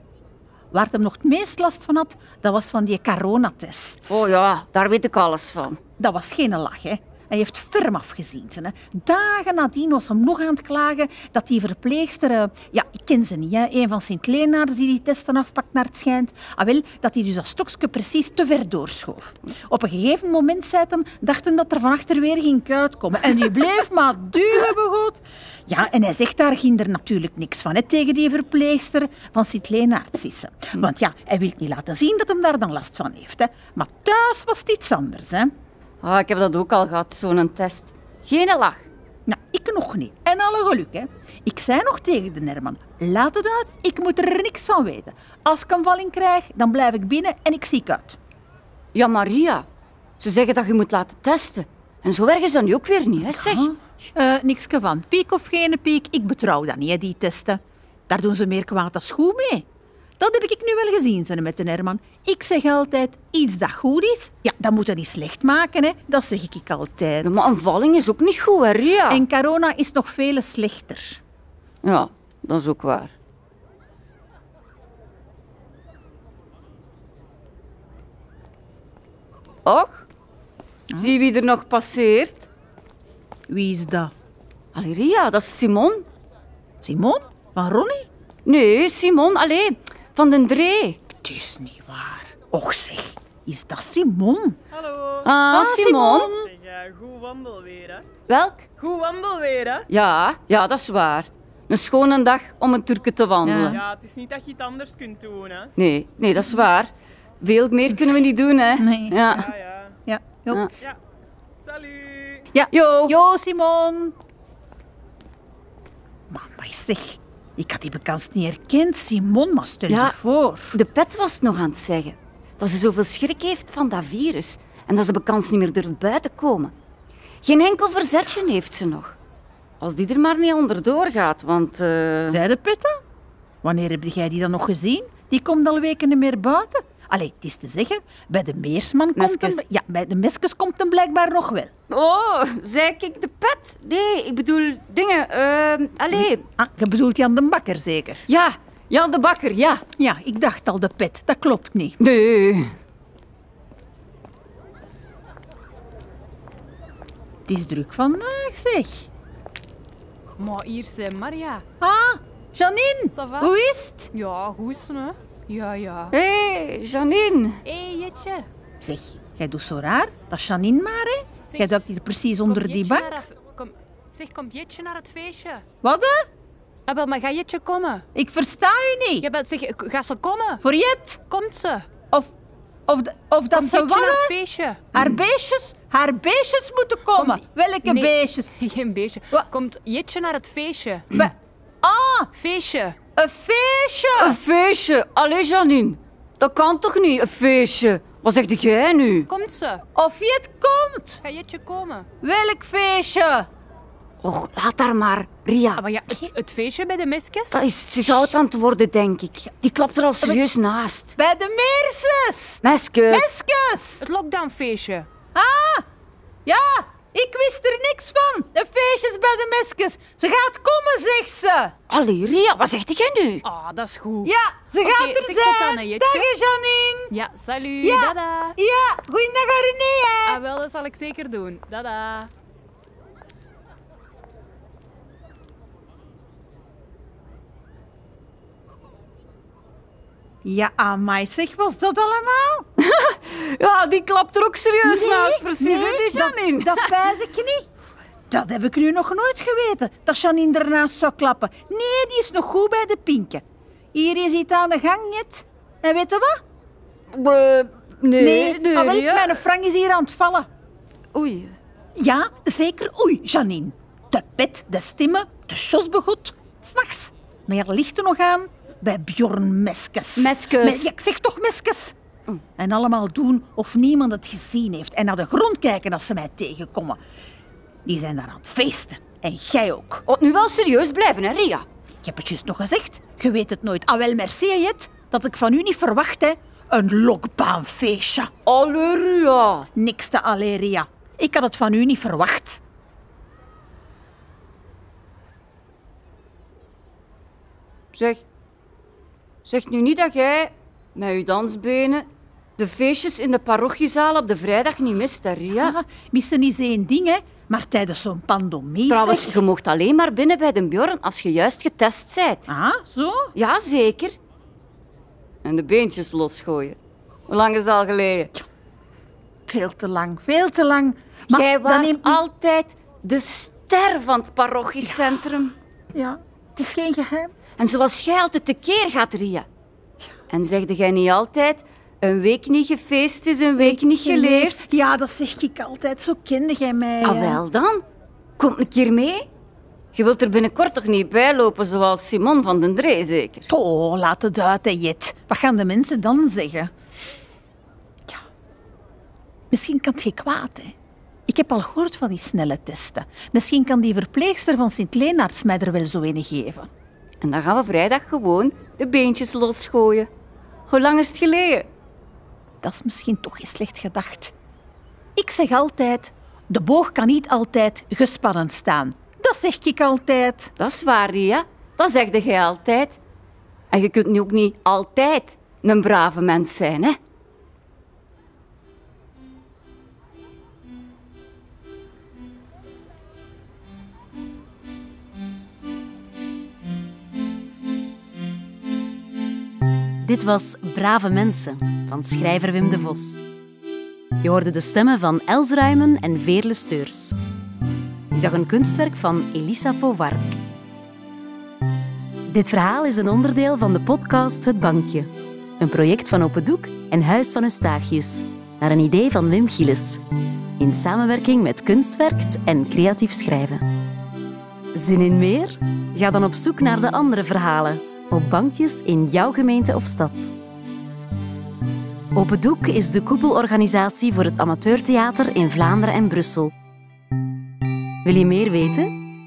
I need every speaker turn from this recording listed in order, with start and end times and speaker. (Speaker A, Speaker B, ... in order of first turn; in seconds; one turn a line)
Speaker A: 0.7-4.3
Speaker B: 4.1-5.8
Speaker A: 6.0-35.5
Speaker B: 36.0-38.9
Speaker A: 39.3-48.2
Speaker B: 48.9-49.7
Speaker B: 50.2-53.7
Speaker A: 53.2-59.7
Speaker A: 60.2-67.5
Speaker B: 67.2-69.3
Speaker A: 69.1-71.2
Speaker B: 71.8-73.1
Speaker B: 79.7-80.0
Speaker A: 80.9-81.2
Speaker B: 80.9-82.5
Speaker A: 83.5-84.1
Speaker B: 84.8-86.1
Speaker A: 86.8-88.0
Speaker B: 88.5-91.0
Speaker A: 91.2-94.6
Speaker B: 95.2-96.3
Speaker A: 95.5-96.5
Speaker C: 96.6-98.0
Speaker B: 98.3-98.7
Speaker C: 98.8-99.8
Speaker B: 99.9-103.8
Speaker A: 103.5-103.8
Speaker C: 103.9-105.7
Speaker B: 105.8-109.5
Speaker A: 108.8-109.5
Speaker A: 110.1-110.7
Speaker C: 111.7-112.5
Speaker A: 112.5-114.2
Speaker B: 112.7-113.1
Speaker A: 116.3-120.8
Speaker B: 119.9-120.2
Speaker B: 120.7-126.7
Speaker B: 127.4-129.2
Speaker B: 129.8-132.4
Speaker A: 132.3-132.9
Speaker A: 133.6-141.7
Speaker B: 139.2-139.6
Speaker B: 141.9-146.4
Speaker A: 146.2-148.2
Speaker B: 148.3-149.8
Speaker A: 150.0-152.0
Speaker B: 152.0-152.7
Speaker A: 157.5-159.1
Speaker D: 160.4-161.6
Speaker A: 161.8-164.1
Speaker D: 163.1-163.5
Speaker D: 164.1-166.1
Speaker B: 166.1-167.6
Speaker D: 167.6-168.5
Speaker A: 168.8-173.2
Speaker D: 172.5-175.6
Speaker A: 175.8-176.2
Speaker D: 176.9-178.1
Speaker A: 178.2-179.3
Speaker D: 179.2-180.6
Speaker A: 180.6-181.2
Speaker D: 181.3-181.9
Speaker A: 182.9-184.4
Speaker D: 183.5-184.9
Speaker A: 184.9-188.5
Speaker D: 187.2-191.1
Speaker A: 191.1-192.3
Speaker D: 192.4-193.0
Speaker A: 193.2-194.4
Speaker B: 194.2-199.3
Speaker D: 199.3-199.8
Speaker A: 199.9-201.2
Speaker D: 201.2-202.1
Speaker A: 202.2-203.5
Speaker B: 204.2-205.8
Speaker D: 205.8-207.6
Speaker B: 207.5-211.2
Speaker A: 211.2-214.0
Speaker B: 212.6-213.3
Speaker D: 214.0-215.1
Speaker A: 215.3-215.8
Speaker A: 216.5-221.7
Speaker B: 221.9-223.4
Speaker D: 223.4-226.3
Speaker A: 224.2-227.1
Speaker D: 227.1-228.6
Speaker A: 227.8-230.4
Speaker D: 230.3-232.3
Speaker A: 240.4-242.7
Speaker B: 242.8-246.9
Speaker A: 244.8-247.6
Speaker A: 248.3-253.4
Speaker A: 253.9-256.4
Speaker B: 257.1-259.4
Speaker A: 258.2-260.5
Speaker B: 261.1-261.6
Speaker A: 262.0-271.9
Speaker B: 270.2-270.9
Speaker A: 272.6-277.0
Speaker A: 277.9-280.1
Speaker B: 280.1-281.7
Speaker A: 282.0-288.3
Speaker B: 288.5-289.7
Speaker A: 289.8-292.6
Speaker B: 297.9-298.2
Speaker B: 299.5-302.1
Speaker B: 302.6-305.8
Speaker A: 305.6-309.4
Speaker B: 308.9-312.5
Speaker A: 312.5-313.3
Speaker B: 313.4-314.2
Speaker B: 315.4-316.8
Speaker B: 317.3-318.3
Speaker A: 319.5-322.2
Speaker B: 321.3-325.6
Speaker A: 325.9-327.3
Speaker B: 327.6-329.5
Speaker B: 330.3-334.8
Speaker A: 333.6-337.4
Speaker B: 337.0-337.8
Speaker B: 338.4-339.3
Speaker B: 339.9-343.5
Speaker A: 343.5-346.7
Speaker A: 349.5-350.7
Speaker A: 351.3-356.7
Speaker B: 357.2-360.1
Speaker B: 360.7-361.7
Speaker A: 362.6-364.3
Speaker A: 365.2-370.5
Speaker B: 370.6-373.0
Speaker B: 373.7-377.0
Speaker E: 390.0-393.2
Speaker E: 394.2-397.1
Speaker E: 398.1-400.3
Speaker E: 402.3-410.0
Speaker E: 410.6-413.6
Speaker E: 414.7-420.3
Speaker E: 422.1-426.5
Speaker E: 428.0-428.9